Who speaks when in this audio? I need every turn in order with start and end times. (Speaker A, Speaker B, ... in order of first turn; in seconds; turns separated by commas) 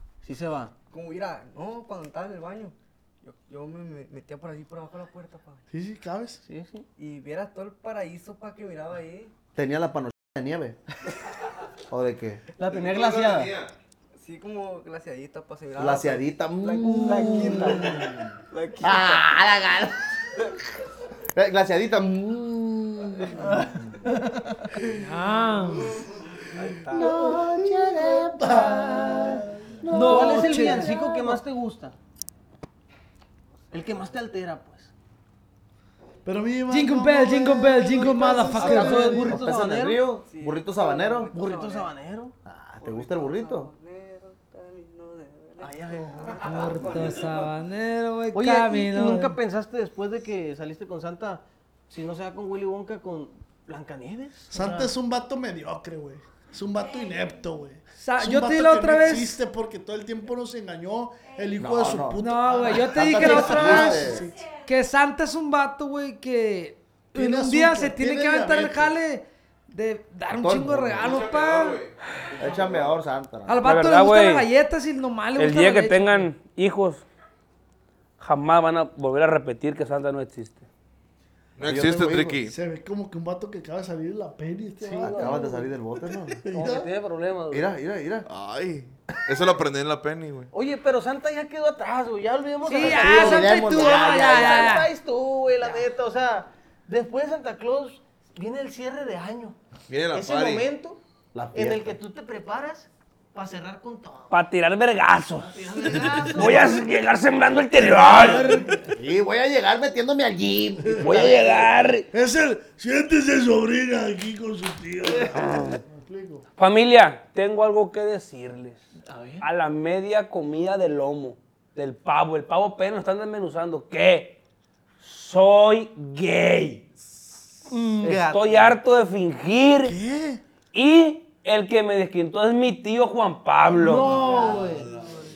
Speaker A: 0.2-0.7, Speaker B: 0.9-5.6, Speaker C: 5.7-6.4, Speaker A: 6.5-6.8, Speaker B: 7.0-9.3, Speaker D: 9.5-10.8, Speaker D: 11.9-12.4, Speaker A: 12.6-13.5, Speaker E: 12.7-13.7, Speaker B: 14.2-19.3, Speaker D: 15.8-18.3, Speaker A: 17.4-17.7, Speaker D: 18.8-20.4, Speaker D: 21.3-24.0, Speaker C: 23.4-23.7, Speaker F: 24.9-26.0, Speaker A: 26.5-27.2, Speaker D: 26.9-31.4, Speaker C: 26.9-29.8, Speaker F: 29.9-30.9, Speaker A: 30.0-31.9, Speaker A: 33.7-34.9, Speaker C: 36.2-39.5, Speaker F: 36.7-39.4, Speaker D: 38.6-41.3, Speaker A: 38.7-40.1, Speaker B: 40.2-41.9, Speaker A: 41.3-42.3, Speaker D: 42.5-43.7, Speaker B: 42.8-47.4, Speaker A: 45.6-47.0, Speaker F: 46.4-49.3, Speaker A: 48.3-54.6, Speaker C: 54.5-64.4, Speaker F: 54.5-54.9, Speaker F: 58.0-59.4, Speaker D: 61.6-62.2, Speaker F: 62.2-71.8, Speaker D: 62.7-64.3, Speaker C: 67.1-68.9, Speaker D: 70.3-71.3, Speaker E: 71.0-72.9, Speaker D: 72.4-73.6, Speaker F: 73.5-76.3, Speaker G: 73.6-74.5, Speaker G: 75.4-77.0, Speaker G: 78.2-80.7, Speaker E: 81.6-82.5, Speaker D: 81.6-82.4, Speaker C: 82.5-85.5, Speaker A: 84.8-85.7, Speaker D: 85.0-86.5, Speaker C: 86.4-86.9, Speaker A: 86.5-87.8, Speaker D: 87.5-88.3, Speaker E: 88.3-90.5, Speaker A: 90.5-99.5, Speaker F: 92.7-94.9, Speaker D: 92.9-94.7, Speaker E: 99.9-100.7, Speaker A: 100.1-101.0, Speaker D: 101.3-102.0, Speaker A: 101.5-104.3, Speaker G: 104.3-108.6, Speaker A: 105.4-106.8, Speaker C: 107.8-109.0, Speaker D: 108.9-111.7, Speaker C: 110.8-111.3, Speaker G: 111.0-112.1, Speaker C: 112.1-116.4, Speaker G: 116.6-118.9, Speaker A: 119.0-119.5, Speaker G: 119.4-124.4, Speaker G: 125.0-126.9, Speaker A: 127.7-128.8, Speaker G: 128.0-130.0, Speaker C: 129.8-130.4, Speaker G: 130.7-134.1, Speaker C: 133.8-134.9, Speaker A: 134.0-135.1